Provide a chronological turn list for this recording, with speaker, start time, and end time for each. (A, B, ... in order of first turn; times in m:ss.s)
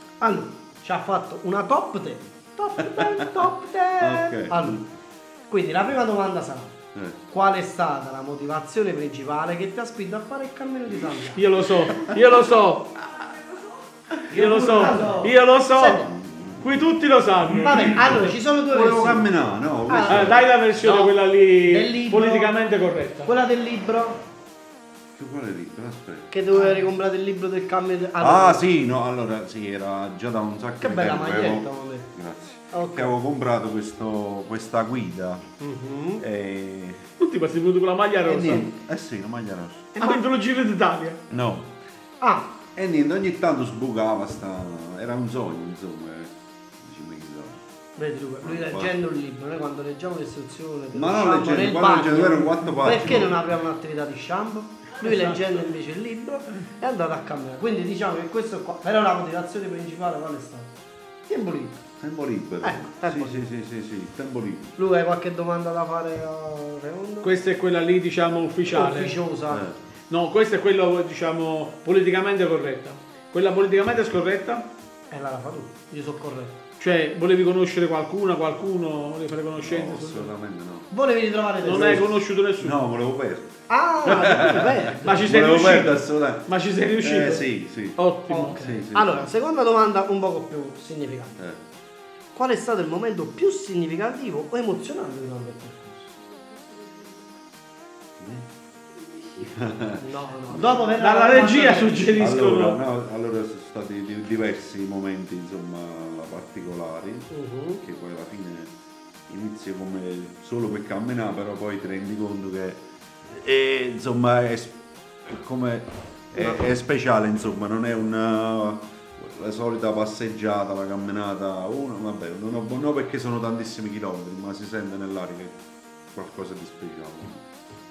0:00.2-0:04.8 A
0:02.8-0:03.4 B
0:04.0-0:04.9 B
0:05.5-0:06.8 A
0:07.3-0:11.6 A
0:11.4-0:13.1 C
0:11.9-0:12.2 B
0:14.3-0:16.1 A
0:14.3-0:16.1 C
0:16.1-0:16.9 B
0:16.6-0:18.3 C
0:17.4-0:20.5 B
0:17.6-0:19.3 A
0:19.9-0:22.5 A
0:20.1-0:23.3 C
0:23.2-0:24.2 A
0:25.1-0:26.3 B
0:26.3-0:28.6 A
0:28.2-0:35.4 B
0:30.8-0:32.1 A
0:32.7-0:33.1 A
0:35.6-0:36.2 A
0:36.2-0:37.0 B
0:37.2-0:38.6 C
0:38.3-0:38.7 A
0:38.3-0:40.0 B
0:40.0-0:40.2 A
0:40.0-0:41.2 C
0:41.3-0:41.8 B
0:42.2-0:42.5 A
0:42.8-0:47.6 B
0:48.0-1:00.7 A
0:48.4-0:48.9 B
0:50.9-0:53.4 B
1:01.3-1:01.8 A
1:02.0-1:04.8 B
1:02.6-1:03.4 A
1:04.8-1:07.3 A
1:07.2-1:09.2 C
1:08.7-1:09.7 A
1:09.5-1:09.8 B
1:10.1-1:14.6 C
1:15.1-1:16.6 A
1:16.8-1:20.3 C
1:19.6-1:20.9 B
1:20.9-1:22.2 A
1:21.6-1:22.8 C
1:22.6-1:28.0 B
1:23.7-1:25.3 A
1:25.0-1:28.6 C
1:28.3-1:31.4 A
1:28.5-1:29.3 B
1:32.4-1:36.1 A
1:38.2-1:38.5 B
1:39.4-1:40.9 B
1:40.0-1:42.3 A
1:41.0-1:42.8 C
1:42.1-1:47.3 B
1:47.3-1:47.8 A
1:47.8-1:48.7 B
1:49.3-2:05.6 B
1:56.4-1:56.7 A
2:06.1-2:07.4 B